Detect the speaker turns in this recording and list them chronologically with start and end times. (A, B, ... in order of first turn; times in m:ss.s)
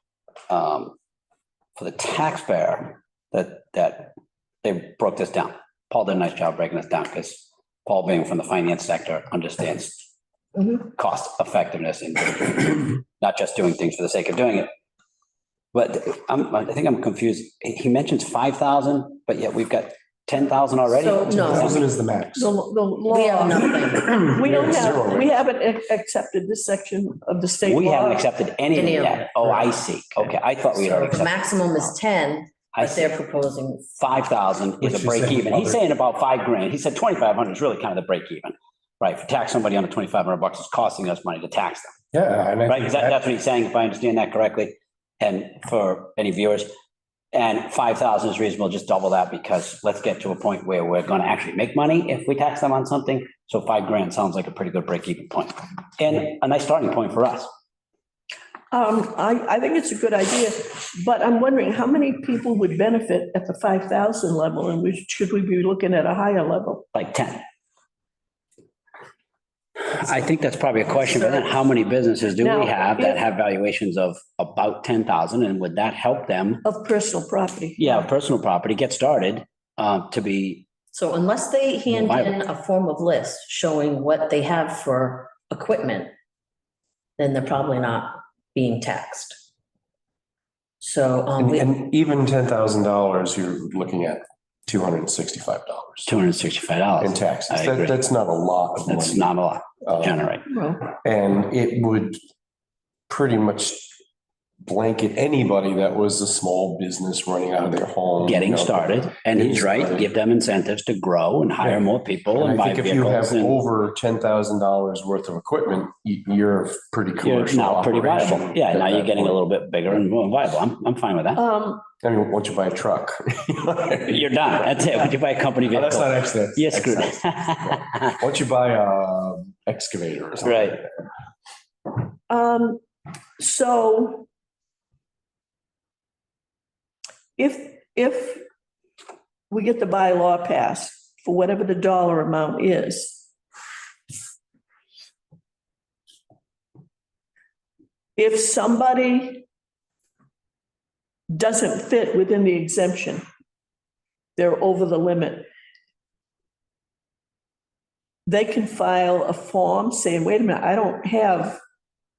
0:00.5-0:00.9 A
0:01.8-0:10.1 A
0:10.6-0:10.8 B
0:10.8-0:14.7 A
0:15.7-0:21.8 A
0:20.9-0:21.8 B
0:21.2-0:22.5 C
0:22.4-0:28.3 D
0:23.1-0:24.3 B
0:24.0-0:25.3 C
0:27.6-0:31.9 A
0:28.7-0:33.9 B
0:32.7-0:33.1 A
0:34.0-0:41.9 A
0:34.8-0:35.8 C
0:42.1-0:43.2 C
0:42.7-0:46.7 A
0:47.3-0:57.5 A
0:58.7-1:06.8 D
1:06.9-1:07.4 A
1:09.9-1:16.6 A
1:11.0-1:11.7 D
1:12.4-1:13.2 D
1:16.6-1:18.1 D
1:17.8-1:20.7 A
1:20.9-1:26.1 B
1:21.9-1:22.4 A
1:27.2-1:29.4 B
1:30.8-1:31.7 B
1:31.4-1:36.1 C
1:36.1-1:38.0 A
1:37.0-1:39.3 C
1:38.9-1:40.5 A
1:39.8-1:40.3 C
1:40.5-1:40.9 D
1:41.0-1:42.2 C
1:43.1-1:44.0 C
1:44.6-1:50.1 C
1:48.2-1:53.6 A
1:52.3-1:59.4 C
1:57.2-2:01.4 A
2:01.4-2:01.9 D
2:02.0-2:04.2 C
2:04.1-2:08.1 A
2:05.7-2:10.9 C
2:10.4-2:10.8 A
2:12.3-2:12.8 D
2:13.4-2:14.3 D
2:17.4-2:18.4 D
2:19.5-2:23.2 D
2:28.2-2:29.5 D
2:31.3-2:33.2 D
2:34.4-2:35.5 D
2:38.3-2:41.6 D